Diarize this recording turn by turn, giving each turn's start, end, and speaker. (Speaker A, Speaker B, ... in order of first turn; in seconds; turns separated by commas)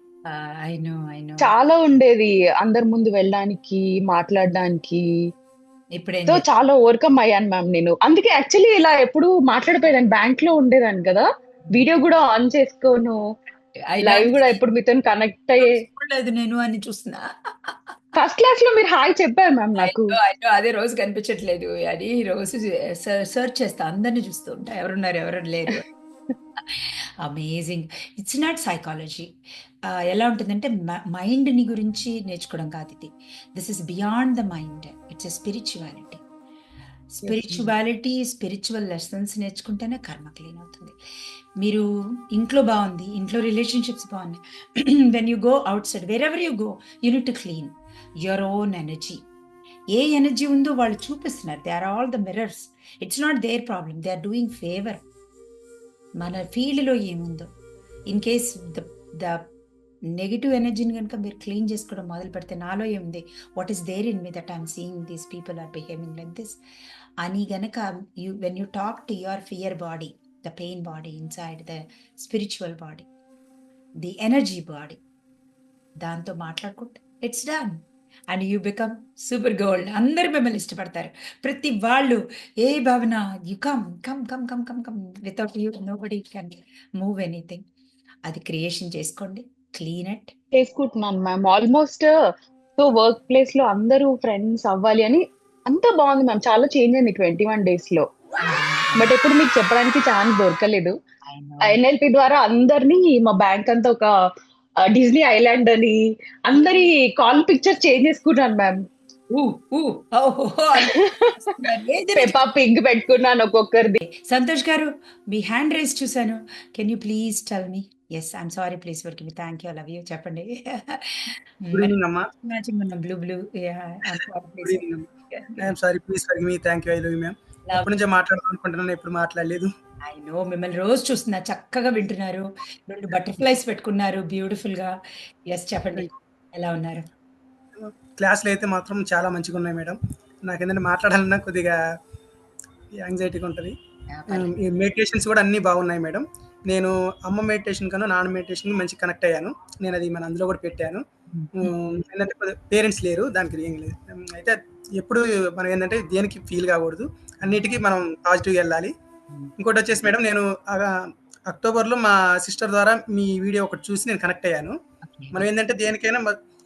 Speaker A: 0.3-1.5, Speaker B: 1.4-5.0, Speaker A: 5.9-6.4, Speaker B: 6.3-13.2, Speaker A: 13.9-14.6, Speaker B: 14.0-15.7, Speaker A: 15.6-17.7, Speaker B: 18.1-20.1, Speaker A: 19.8-25.9, Speaker A: 26.7-29.3, Speaker A: 30.1-36.2, Speaker A: 37.1-41.0, Speaker C: 37.2-37.7, Speaker A: 41.6-47.7, Speaker A: 48.2-49.2, Speaker A: 49.9-55.0, Speaker A: 56.2-57.5, Speaker A: 58.1-59.5, Speaker A: 60.1-66.6, Speaker A: 67.2-73.1, Speaker A: 74.0-75.0, Speaker A: 76.0-77.8, Speaker A: 78.3-87.6, Speaker A: 88.2-90.3, Speaker B: 90.5-92.1, Speaker B: 92.8-98.0, Speaker A: 98.4-99.1, Speaker B: 99.0-101.0, Speaker A: 101.3-101.8, Speaker B: 101.6-104.1, Speaker B: 104.8-108.8, Speaker A: 109.3-112.4, Speaker B: 110.8-111.3, Speaker B: 112.2-114.0, Speaker A: 114.0-121.9, Speaker C: 121.7-122.2, Speaker A: 122.4-125.7, Speaker C: 124.6-125.0, Speaker C: 125.6-129.7, Speaker A: 130.1-134.9, Speaker A: 135.5-137.1, Speaker C: 137.8-141.8, Speaker C: 143.0-143.7, Speaker A: 144.1-144.5, Speaker C: 144.3-151.0, Speaker A: 151.3-151.7, Speaker C: 151.6-158.9, Speaker C: 159.6-164.7, Speaker A: 165.1-165.4, Speaker C: 165.3-166.3